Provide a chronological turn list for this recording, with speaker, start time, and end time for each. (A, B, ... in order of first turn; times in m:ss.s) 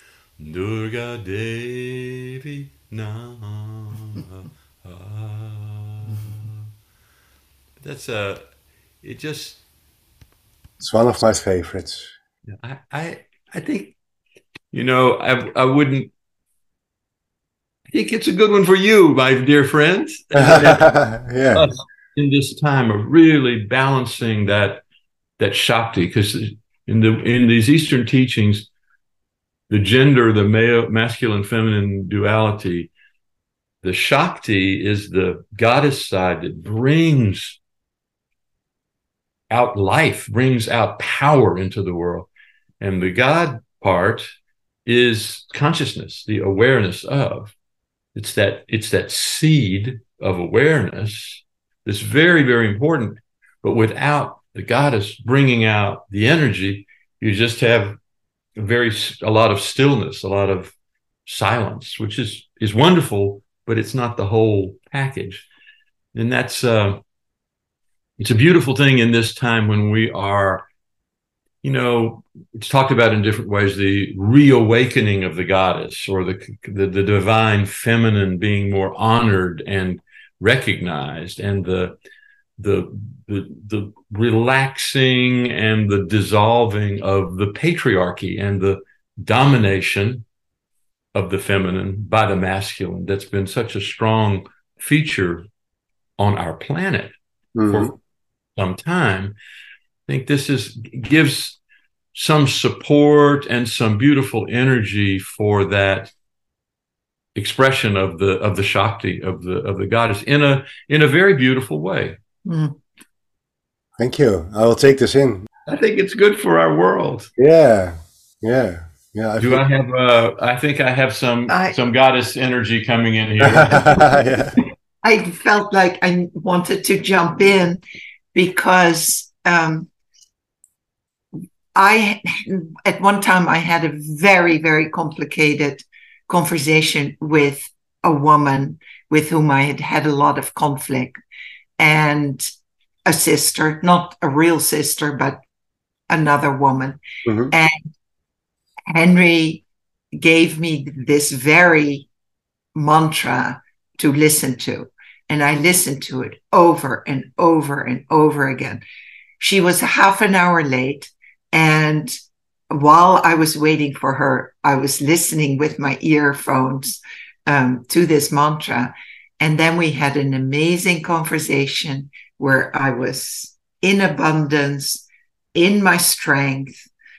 0:00.4-0:06.6 A
0:07.8-0:08.5 A
0:09.0-0:09.6 A
0:10.8-0:12.1 B
0:12.6-0:14.0 A
0:14.7-0:16.1 A
0:17.9-0:20.9 A
0:20.4-0:21.7 B
0:21.5-0:24.8 A
0:25.4-0:28.7 A
0:29.7-0:32.9 A
0:33.8-0:37.6 A
0:39.5-0:42.3 A
0:42.8-0:44.3 A
0:44.9-0:47.6 A
0:48.2-0:58.0 A
0:58.6-1:00.8 A
1:01.3-1:05.5 A
1:06.1-1:07.0 A
1:08.2-1:10.7 A
1:11.6-1:22.0 A
1:22.6-1:30.3 A
1:31.2-1:35.5 A
1:36.2-1:37.2 A
1:37.6-1:37.9 B
1:37.7-1:38.0 A
1:38.6-1:39.4 A
1:40.1-1:41.6 A
1:42.1-1:46.1 A
1:47.4-1:52.2 A
1:52.5-1:52.7 C
1:54.0-1:55.4 B
1:55.7-1:57.3 A
1:57.4-1:59.6 B
1:59.4-2:04.1 A
2:01.5-2:01.8 C
2:03.4-2:04.6 B
2:05.0-2:07.8 C
2:08.3-2:09.9 C
2:11.8-2:21.2 C
2:21.8-2:22.5 C
2:23.1-2:25.4 C
2:26.1-2:27.0 C
2:27.3-2:27.5 B
2:27.5-2:27.9 C
2:28.9-2:29.6 C
2:30.2-2:32.1 C
2:32.8-2:38.8 C
2:39.4-2:42.1 C
2:42.7-2:56.9 C